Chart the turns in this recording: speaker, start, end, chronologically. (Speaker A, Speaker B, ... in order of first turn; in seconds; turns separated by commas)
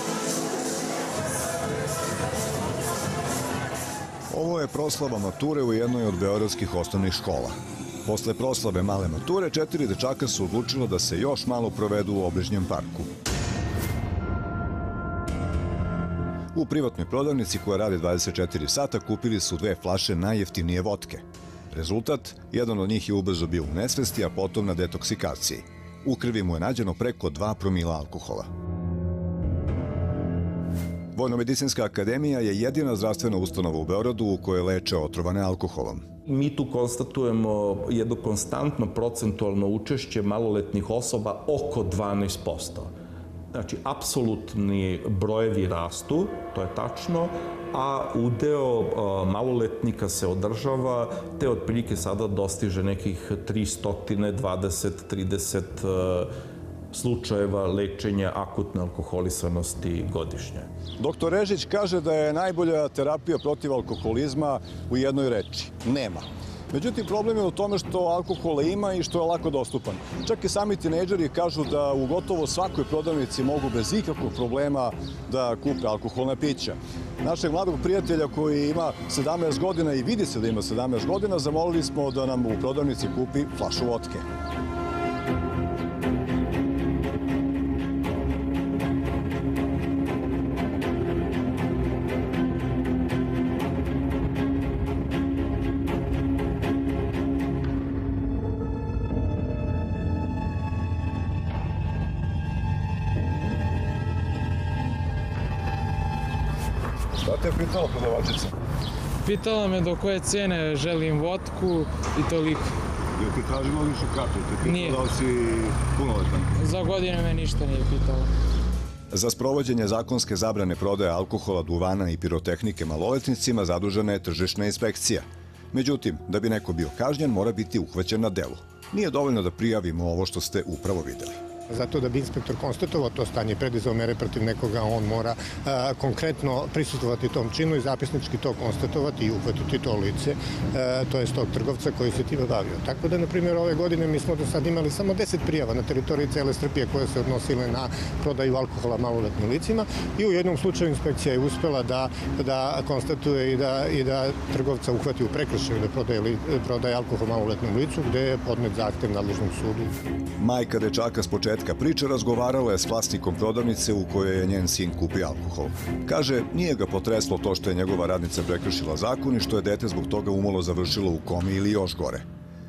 Speaker A: 4.3-13.1, Speaker A: 16.5-28.5, Speaker A: 31.1-36.1, Speaker B: 36.3-42.9, Speaker B: 43.5-56.3, Speaker B: 56.9-60.7, Speaker A: 61.0-84.2, Speaker A: 107.2-108.5, Speaker C: 109.2-112.7, Speaker A: 113.2-116.5, Speaker C: 114.6-115.0, Speaker C: 116.6-118.3, Speaker A: 119.1-131.4, Speaker D: 131.7-159.9, Speaker A: 160.4-172.2